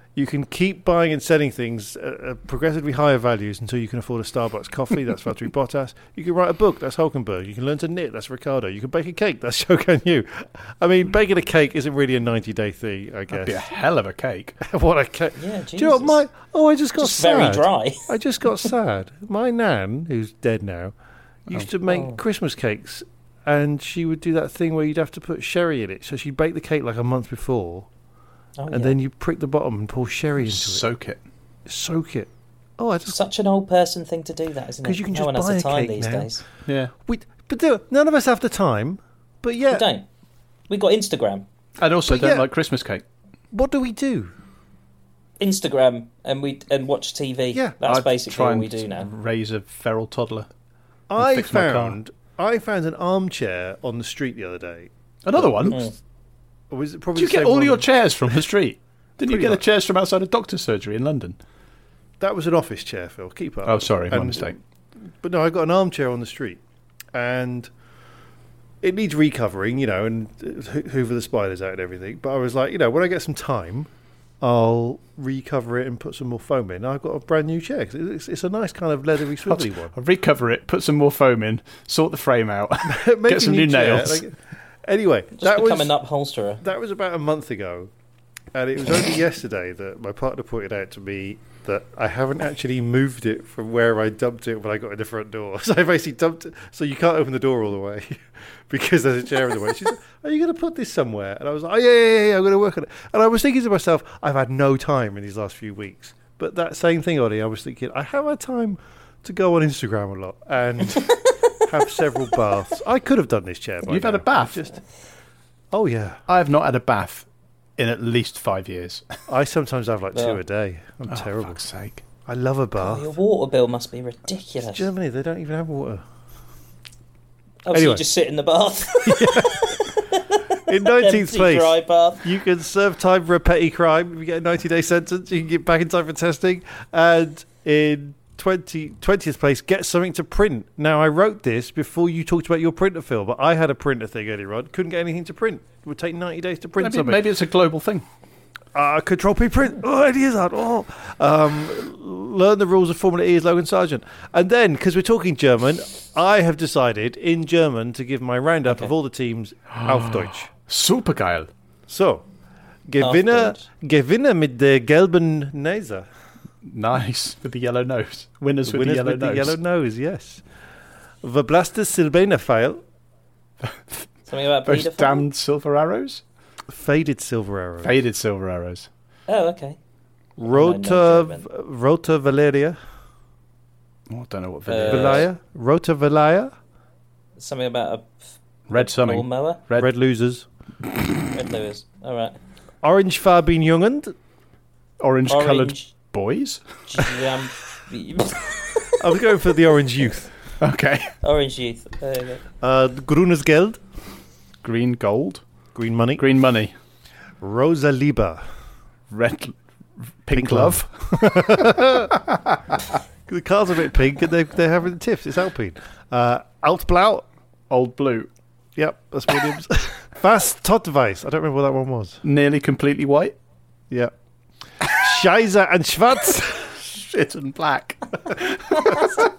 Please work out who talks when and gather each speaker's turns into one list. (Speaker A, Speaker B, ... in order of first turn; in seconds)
Speaker A: 0.1-13.7, 14.6-20.9, 21.5-27.9, 28.7-30.9, 31.7-33.2, 34.8-36.3, 37.1-39.9, 42.1-42.5, 43.5-44.3, 51.1-55.9, 56.7-58.4, 59.2-59.6, 62.2-66.6, 67.1-67.7, 68.8-73.9, 74.4-79.9, 82.8-86.0, 86.6-87.9, 88.5-114.8, 115.7-116.2, 119.3-121.6, 122.3-123.1, 124.6-126.0, 127.7-128.1, 129.0-130.0, 130.7-147.2, 148.7-160.5, 161.9-162.2, 162.9-166.1, 168.7-170.4, 171.2-172.8, 176.7-177.9, 180.4-182.8, 184.9-186.5, 189.8-190.4, 192.8-194.2, 198.9-200.3, 202.6-203.8, 205.7-206.2, 207.4-208.4, 210.3-212.2, 213.3-217.3, 218.8-222.2, 224.9-226.8
Speaker B: 13.3-14.6, 30.4-31.2, 36.7-36.9, 41.8-43.0, 47.9-50.5, 51.2-52.0, 55.2-55.8, 57.1-61.4, 63.6-64.5, 79.4-84.2, 113.9-114.7, 116.3-117.3, 117.8-119.1, 121.1-122.0, 146.8-148.1, 159.7-161.5, 166.7-169.6, 173.6-174.1, 174.7-176.2, 177.8-178.9, 184.1-185.3, 188.7-189.9, 195.0-197.1, 200.6-201.1, 204.6-205.4, 206.2-206.7, 209.1-209.5, 210.2-211.5, 212.3-212.8, 217.7-218.3, 222.2-223.4, 226.8-229.1
Speaker C: 15.4-16.2, 17.0-18.1, 21.9-22.2, 28.6-28.9, 33.1-36.4, 39.7-40.0, 40.7-41.5, 45.4-49.1, 55.6-55.9, 85.4-86.6, 120.1-120.4, 122.8-124.9, 127.7-132.2, 158.7-158.9, 163.0-163.6, 174.3-175.3, 179.3-179.8, 180.4-181.4, 184.7-185.3, 187.4-189.6, 191.3-192.4, 195.3-195.9, 196.9-198.9, 201.2-202.4